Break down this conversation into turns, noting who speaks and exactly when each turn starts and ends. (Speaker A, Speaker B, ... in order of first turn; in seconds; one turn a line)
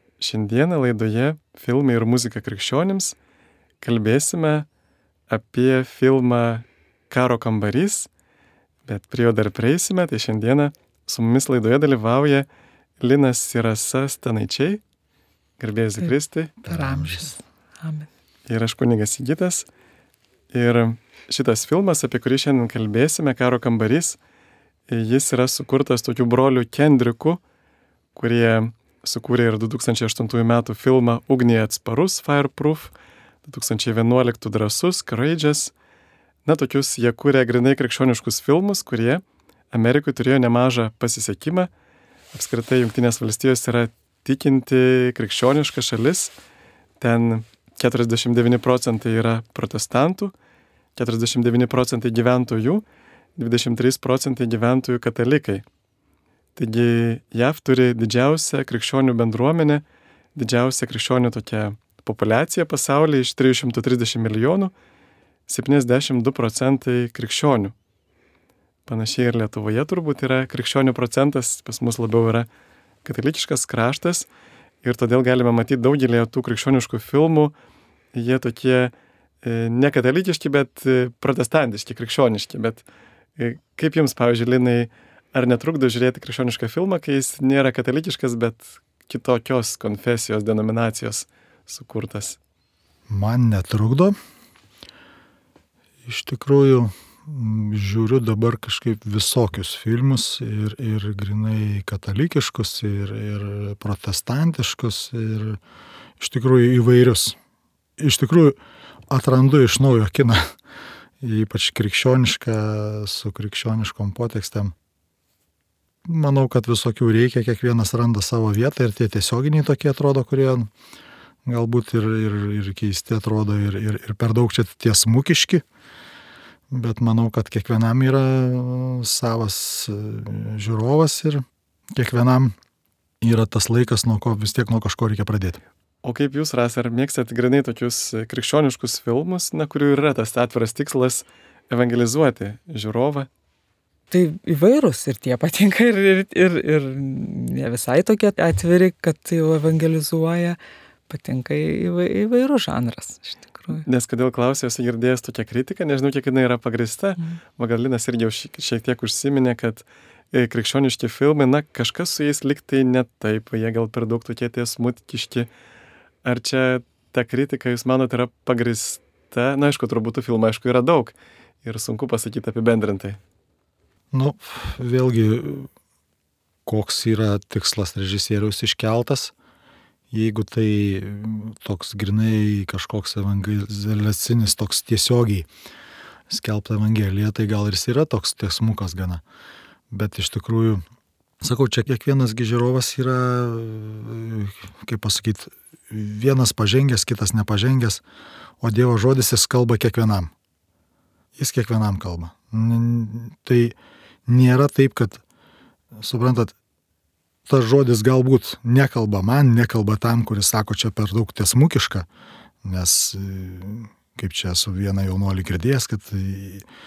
Speaker A: 0.2-3.2
Speaker A: 3.8-4.7
Speaker A: 5.3-8.1
Speaker A: 8.9-12.5
Speaker A: 13.0-14.8
Speaker A: 15.6-16.5
Speaker B: 16.6-17.3
Speaker C: 16.6-18.1
Speaker A: 18.5-19.7
Speaker A: 20.5-24.2
Speaker A: 24.9-27.4
Speaker A: 28.1-32.9
Speaker A: 33.5-35.7
Speaker A: 36.5-41.7
Speaker A: 42.3-46.3
Speaker A: 47.0-50.3
Speaker A: 51.0-52.9
Speaker A: 53.4-55.6
Speaker A: 56.6-59.8
Speaker A: 60.4-64.7
Speaker A: 65.5-67.7
Speaker A: 68.9-72.5
Speaker A: 73.0-74.3
Speaker A: 74.8-77.5
Speaker A: 78.1-82.8
Speaker A: 83.4-92.4
Speaker B: 93.1-94.2
Speaker B: 96.0-105.6
Speaker B: 106.2-107.4
Speaker B: 108.0-108.6
Speaker B: 109.1-110.5
Speaker B: 111.2-114.8
Speaker B: 116.1-120.7
Speaker B: 121.5-125.6
Speaker B: 126.7-132.6
Speaker B: 133.2-135.6
Speaker A: 136.0-143.3
Speaker C: 144.1-150.6
Speaker C: 151.1-153.9
Speaker A: 153.7-165.5
Speaker A: 166.2-173.2
Speaker B: 174.1-175.7
Speaker B: 176.7-179.3
Speaker B: 180.1-185.5
Speaker B: 186.3-189.2
Speaker B: 189.9-190.8
Speaker B: 191.4-198.0
Speaker B: 198.6-200.3
Speaker B: 201.4-203.8
Speaker B: 204.3-205.2
Speaker B: 205.9-206.5
Speaker B: 207.5-212.1
Speaker B: 212.6-216.7